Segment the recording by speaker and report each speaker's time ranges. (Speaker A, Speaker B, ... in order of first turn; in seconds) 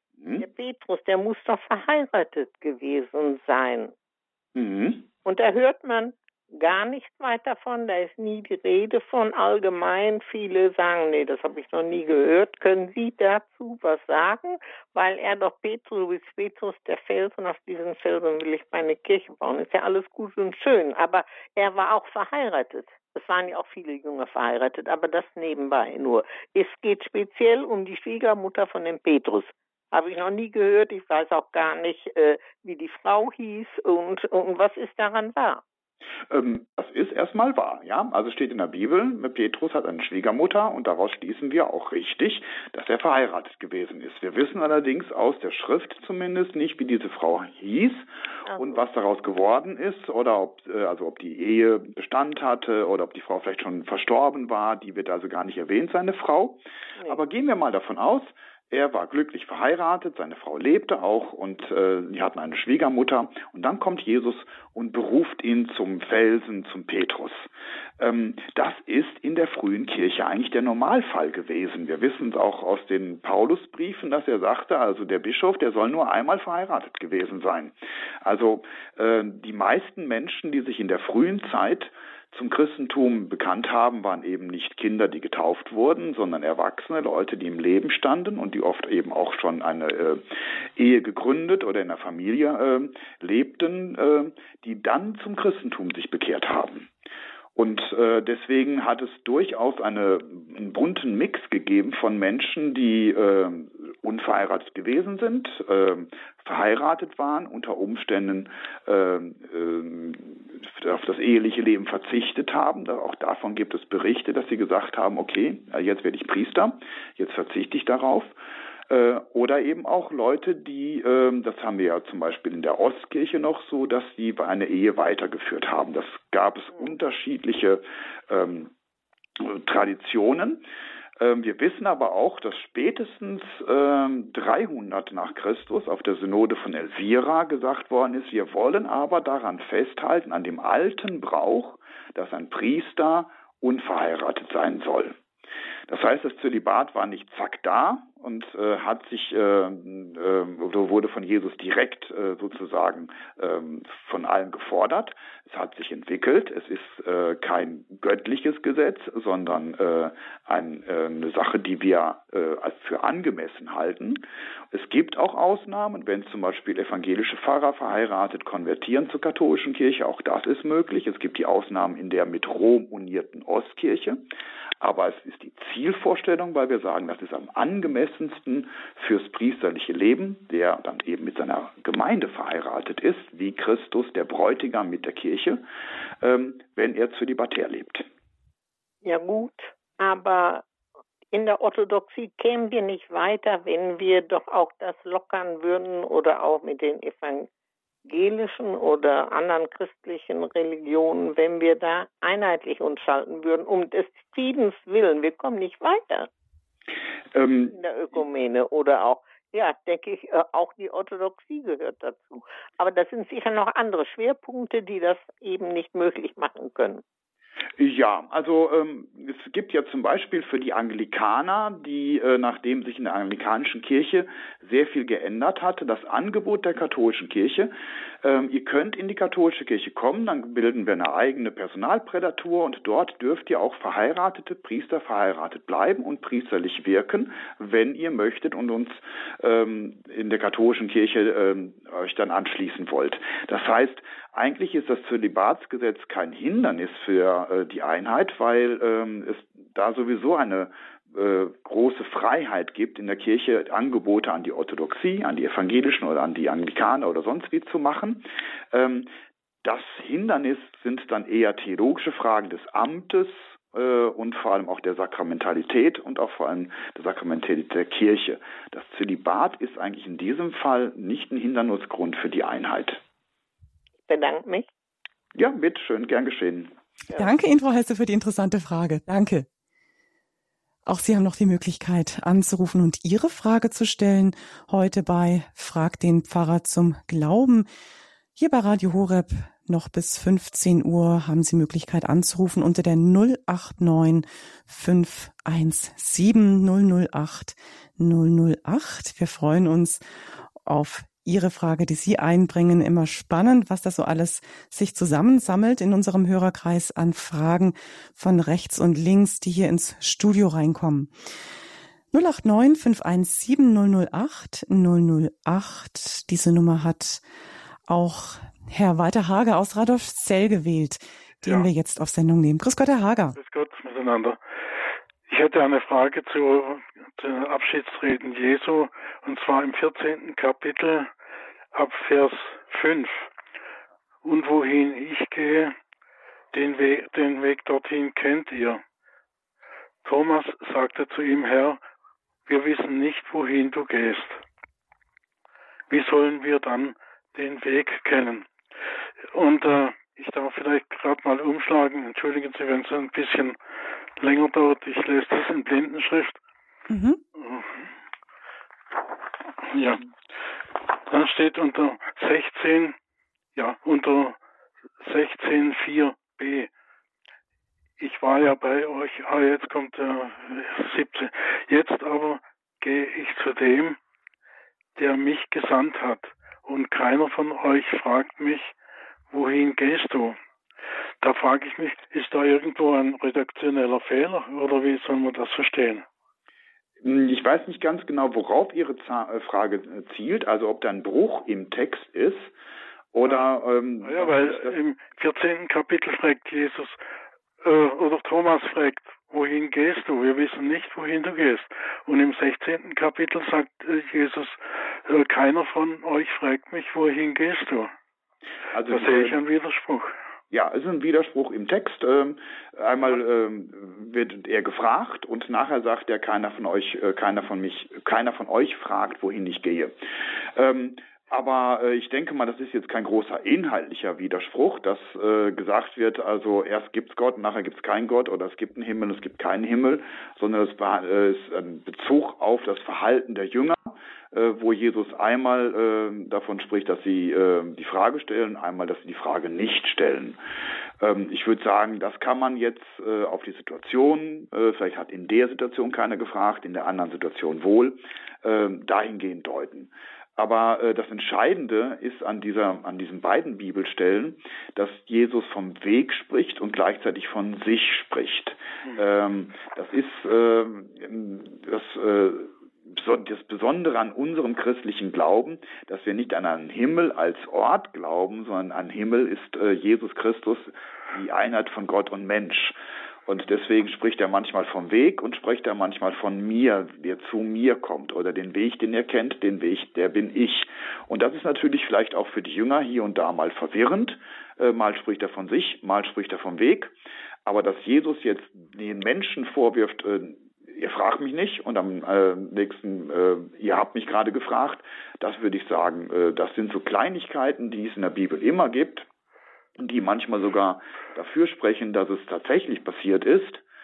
Speaker A: 0.2-0.4, 4.5-5.0, 36.3-96.9, 97.5-118.3, 118.9-128.7, 129.4-130.6, 131.2-145.2, 145.9-174.2, 174.8-185.6, 186.2-188.1, 207.3-207.8, 217.8-259.1, 259.6-273.0, 275.3-276.7, 387.0-392.5, 393.1-394.8, 408.7-409.4, 410.5-419.9, 420.5-440.4, 441.0-486.9, 487.4-499.1, 499.8-503.6
Speaker B: 0.4-3.9, 5.2-35.6, 189.0-190.6, 191.3-197.5, 198.1-206.3, 207.7-217.0, 274.1-274.7
Speaker C: 277.1-279.5, 280.9-287.7, 288.4-300.0, 300.6-311.1, 312.1-317.2, 317.9-323.4, 356.9-357.2
Speaker D: 321.4-321.7, 323.4-324.4, 325.3-331.1, 331.7-333.3, 334.2-335.7, 336.5-338.8, 340.0-341.8, 342.4-344.4, 345.9-348.5, 349.3-353.6, 354.2-356.4, 357.4-357.9, 359.6-360.0, 361.1-362.9, 363.5-364.4, 365.0-366.7, 368.0-374.0, 374.9-378.7, 379.3-380.4, 381.2-386.1, 393.2-393.5, 394.0-397.0, 397.6-407.9, 408.9-410.1